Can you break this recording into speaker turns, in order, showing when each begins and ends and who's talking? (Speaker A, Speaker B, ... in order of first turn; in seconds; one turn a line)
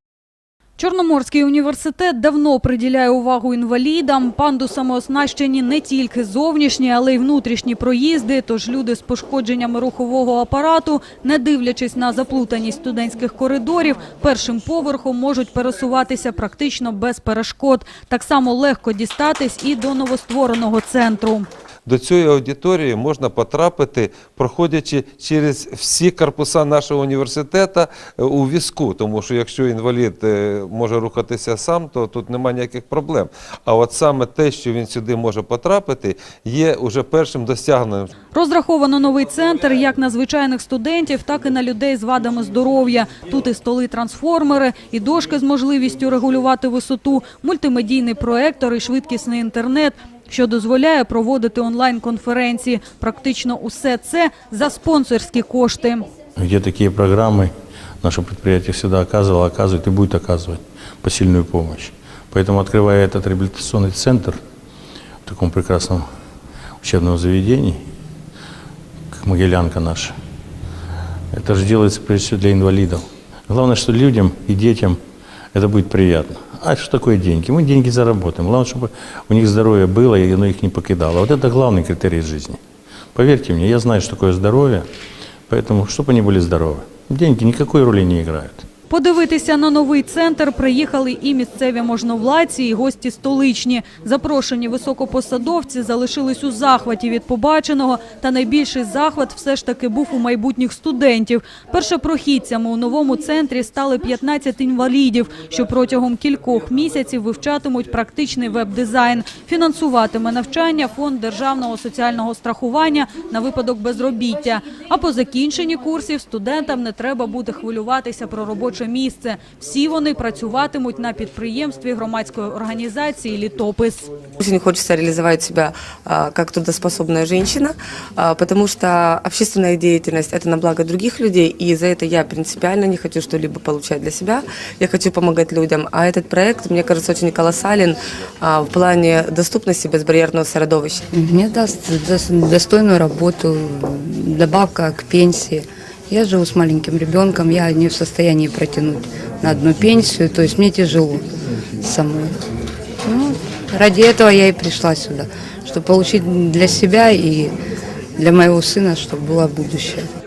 Speaker A: 0.8-21.5
Speaker B: 21.9-38.1
Speaker A: 38.3-56.0
Speaker C: 56.4-57.5
Speaker C: 58.0-64.4
Speaker C: 65.2-66.0
Speaker C: 66.8-67.8
Speaker C: 69.1-70.1
Speaker C: 71.3-75.0
Speaker C: 75.5-82.6
Speaker C: 83.1-84.8
Speaker C: 85.5-88.7
Speaker A: 88.9-124.1
Speaker D: 124.4-141.0
Speaker E: 141.1-151.2
Speaker E: 151.8-152.3
Speaker E: 153.1-157.5
Speaker E: 158.2-160.1